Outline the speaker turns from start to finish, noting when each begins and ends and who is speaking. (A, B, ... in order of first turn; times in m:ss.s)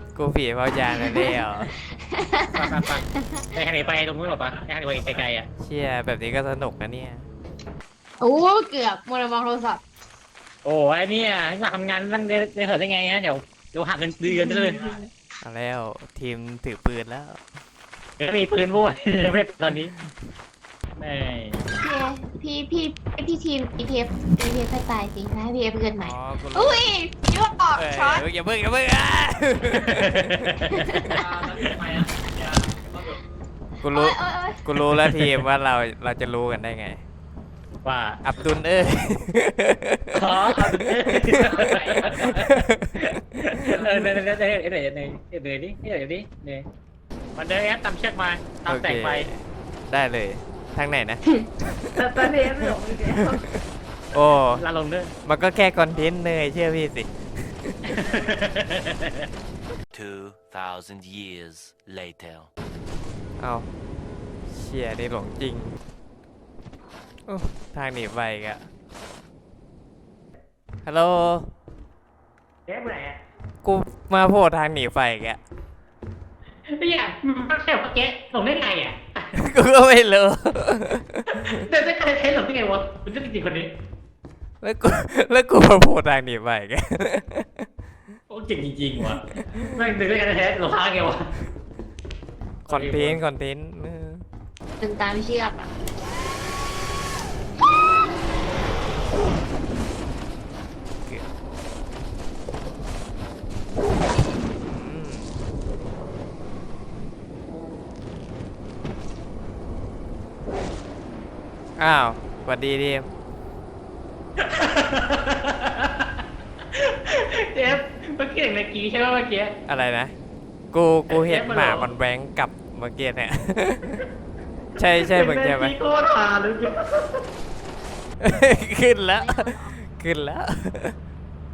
0:00.2-0:01.8 A
0:00.9-0:03.5 B
0:02.6-0:05.5 C
0:05.6-0:07.3 A
0:08.2-0:09.8 B
0:10.6-0:14.8 C
0:14.3-0:15.1 B
0:15.4-0:17.4 A
0:18.2-0:19.9 C
0:21.0-0:21.6 C
0:21.8-0:28.3 B
0:26.0-0:26.8 A
0:27.8-0:31.3 A
0:29.9-0:30.8 C
0:30.7-0:31.4 B
0:31.4-0:32.1 C
0:33.8-0:37.0 A
0:33.8-0:34.7 B
0:35.0-0:35.3 C
0:37.8-0:38.2 C
0:38.2-0:44.0 A
0:40.1-0:46.7 C
0:47.4-0:49.3 C
0:48.7-0:54.6 A
0:51.3-0:53.4 B
0:54.6-0:55.1 C
0:55.2-0:57.9 A
0:57.9-0:59.1 C
0:59.9-1:02.5 D
1:03.4-1:03.7 A
1:04.5-1:05.8 A
1:07.3-1:08.7 A
1:10.8-1:11.5 A
1:12.7-1:13.2 C
1:13.6-1:15.4 A
1:16.7-1:19.3 C
1:19.3-1:21.6 A
1:21.3-1:23.7 C
1:24.6-1:27.7 A
1:28.3-1:31.3 C
1:29.4-1:29.7 A
1:32.7-1:34.2 A
1:32.7-1:33.2 C
1:34.8-1:35.7 B
1:44.6-1:45.3 A
1:51.8-1:53.1 A
1:54.4-1:56.1 C
1:56.7-1:59.5 C
1:59.7-2:00.1 A
2:00.7-2:04.0 A
2:01.1-2:01.9 C
2:04.8-2:05.7 A
2:05.0-2:07.2 C
2:08.2-2:11.0 A
2:09.1-2:09.8 B